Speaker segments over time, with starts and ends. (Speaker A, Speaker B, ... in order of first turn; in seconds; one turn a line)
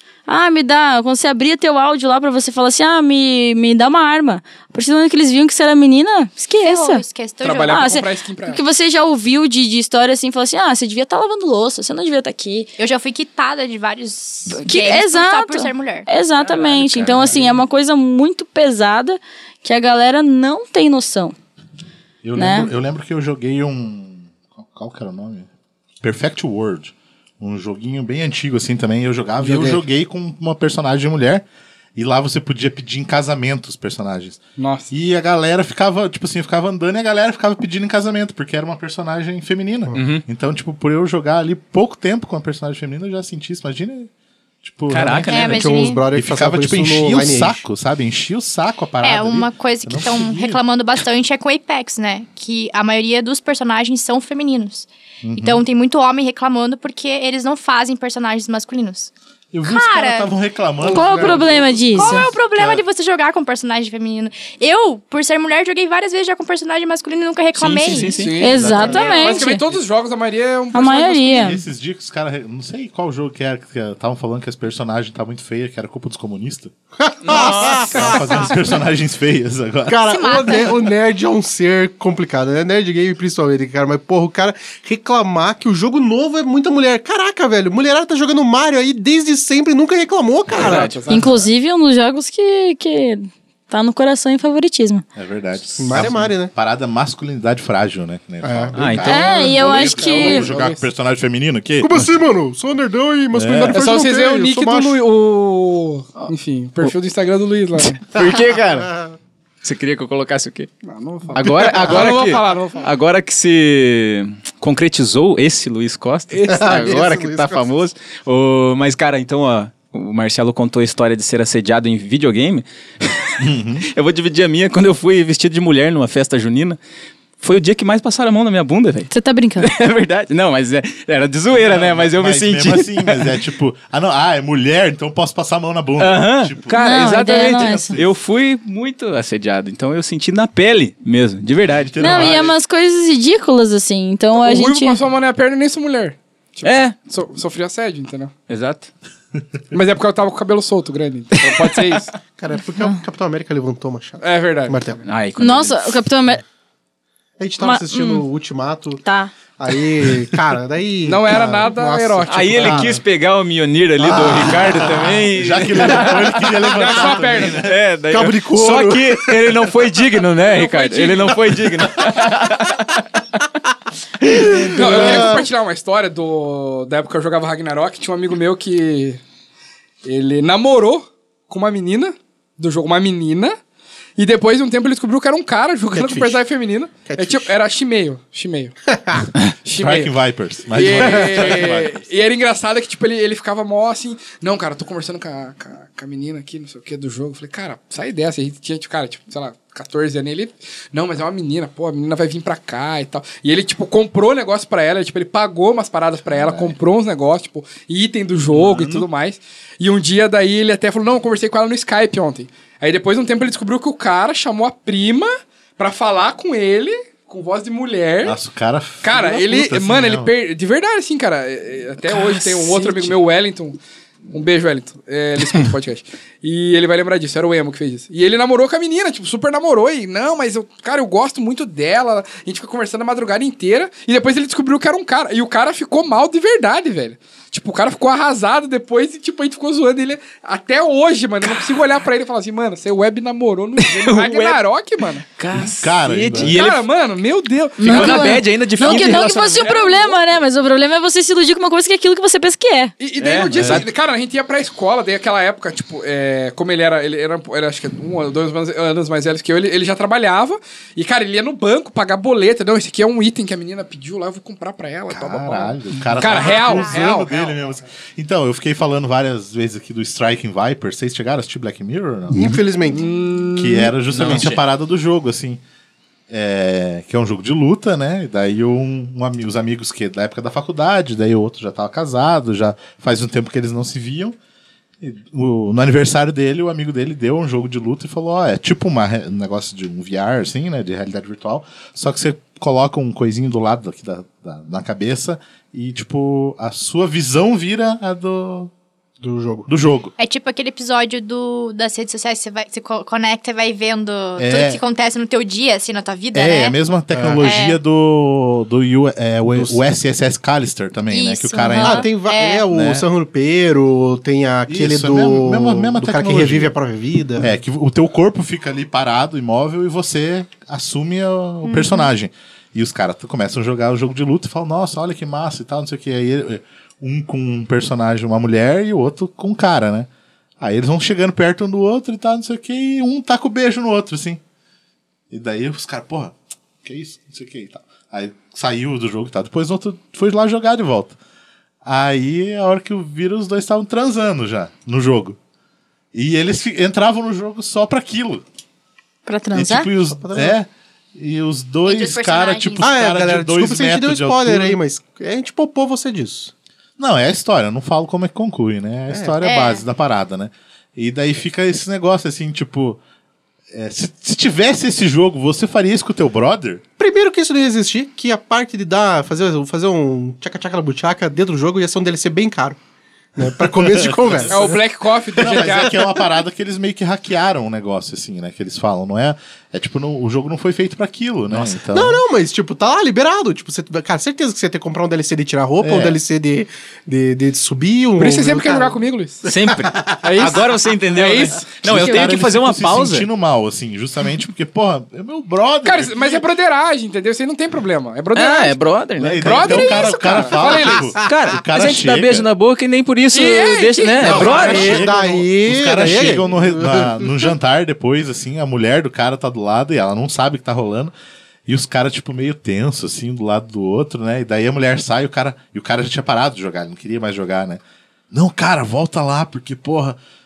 Speaker A: 0.3-7.0
Speaker B: 6.6-7.9
Speaker C: 7.4-8.6
Speaker A: 7.7-12.7
Speaker B: 12.8-16.1
Speaker A: 14.5-21.3
Speaker D: 16.4-17.5
Speaker E: 22.2-25.5
Speaker A: 22.4-22.7
Speaker E: 26.0-31.4
Speaker C: 29.4-29.8
Speaker E: 31.9-34.4
Speaker C: 34.6-34.9
Speaker E: 34.9-44.1
Speaker D: 39.9-40.2
Speaker E: 44.6-50.6
Speaker D: 44.9-45.7
Speaker B: 45.2-46.0
Speaker F: 45.4-47.6
Speaker B: 49.0-59.1
Speaker E: 55.2-55.6
Speaker E: 59.5-62.8
Speaker B: 59.6-60.3
Speaker F: 60.8-61.5
Speaker A: 60.8-62.3
Speaker B: 61.9-68.4
Speaker D: 67.5-68.6
Speaker C: 67.9-71.5
Speaker A: 68.4-69.6
Speaker E: 68.5-69.4
Speaker A: 70.7-71.6
Speaker E: 71.3-76.7
Speaker F: 77.0-78.5
Speaker D: 77.2-78.1
Speaker E: 77.3-80.1
Speaker F: 79.9-91.0
Speaker B: 80.1-80.7
Speaker D: 90.5-91.0
Speaker C: 90.6-91.1
Speaker E: 91.1-91.4
Speaker A: 91.1-95.0
Speaker E: 95.1-102.1
Speaker F: 95.8-96.5
Speaker F: 98.4-99.1
Speaker D: 98.7-99.3
Speaker A: 99.0-100.5
Speaker C: 99.6-100.8
Speaker F: 101.8-105.0
Speaker E: 103.3-103.8
Speaker C: 103.7-108.0
Speaker D: 107.8-108.9
Speaker D: 109.6-110.7
Speaker C: 110.8-112.9
Speaker D: 111.3-126.8
Speaker C: 116.3-116.8
Speaker F: 116.5-117.7
Speaker E: 123.4-123.8
Speaker D: 127.4-133.4
Speaker A: 129.1-129.7
Speaker E: 131.5-138.2
Speaker D: 136.0-142.5
Speaker A: 136.7-137.9
Speaker E: 141.8-142.5
Speaker A: 142.0-145.0
Speaker C: 144.4-148.3
Speaker D: 146.6-146.9
Speaker D: 148.5-148.9
Speaker C: 149.7-152.1
Speaker D: 151.4-151.8
Speaker F: 152.4-155.0
Speaker C: 154.2-154.9
Speaker D: 155.0-156.0
Speaker A: 155.4-156.4
Speaker F: 157.4-159.0
Speaker A: 157.6-158.2
Speaker A: 159.0-159.3
Speaker F: 159.6-162.9
Speaker C: 161.1-162.9
Speaker D: 162.3-166.6
Speaker E: 162.6-163.0
Speaker F: 164.0-164.8
Speaker E: 164.5-167.8
Speaker C: 166.6-167.6
Speaker D: 167.5-173.2
Speaker F: 168.1-169.7
Speaker C: 170.5-171.5
Speaker D: 174.2-175.3
Speaker F: 174.3-175.3
Speaker C: 174.7-179.2
Speaker E: 174.9-175.4
Speaker C: 180.0-183.6
Speaker C: 184.2-188.8
Speaker F: 185.9-186.4
Speaker F: 187.0-187.5
Speaker F: 188.9-189.3
Speaker C: 189.6-190.1
Speaker E: 189.8-192.0
Speaker C: 190.7-218.4
Speaker F: 190.8-191.5
Speaker E: 206.3-206.8
Speaker E: 208.5-209.1
Speaker E: 218.2-220.3
Speaker C: 219.0-223.8
Speaker C: 224.3-245.2
Speaker D: 243.8-244.6
Speaker D: 245.3-246.8
Speaker E: 245.5-246.6
Speaker C: 246.4-250.2
Speaker A: 247.8-252.9
Speaker D: 247.8-249.8
Speaker C: 253.0-267.3
Speaker D: 253.2-253.9
Speaker E: 253.5-253.8
Speaker E: 265.1-272.6
Speaker B: 266.3-267.5
Speaker F: 272.3-273.1
Speaker C: 272.9-274.5
Speaker E: 273.5-275.6
Speaker D: 274.1-274.6
Speaker E: 276.3-284.4
Speaker E: 285.0-298.7
Speaker F: 299.2-299.7
Speaker E: 299.7-300.1
Speaker B: 300.2-306.8
Speaker E: 304.4-304.8
Speaker E: 306.3-312.1
Speaker F: 307.1-307.4
Speaker B: 307.4-307.8
Speaker F: 309.5-309.8
Speaker B: 311.1-312.6
Speaker A: 311.5-312.0
Speaker F: 311.8-317.5
Speaker E: 312.7-313.0
Speaker E: 314.7-316.7
Speaker E: 317.4-330.1
Speaker B: 321.6-321.9
Speaker E: 330.6-334.4
Speaker E: 335.3-341.2
Speaker E: 341.8-345.4
Speaker E: 346.1-348.4
Speaker A: 349.2-349.9
Speaker E: 349.5-354.8
Speaker F: 350.1-350.6
Speaker B: 351.8-352.9
Speaker F: 352.8-356.5
Speaker E: 357.0-363.0
Speaker F: 359.1-359.3
Speaker B: 359.4-359.8
Speaker E: 363.7-366.8
Speaker F: 367.0-372.8
Speaker F: 373.4-374.8
Speaker E: 373.6-374.8
Speaker C: 374.5-376.0
Speaker F: 375.4-376.2
Speaker E: 375.4-382.2
Speaker F: 381.9-389.5
Speaker E: 385.8-386.2
Speaker C: 388.2-389.4
Speaker D: 389.4-393.3
Speaker C: 390.2-391.8
Speaker E: 391.8-396.4
Speaker C: 395.8-398.8
Speaker D: 398.3-400.1
Speaker E: 399.2-402.5
Speaker C: 399.4-401.1
Speaker D: 401.1-405.0
Speaker C: 403.3-404.9
Speaker E: 404.2-411.1
Speaker F: 404.2-407.5
Speaker E: 411.7-417.8
Speaker E: 418.3-420.2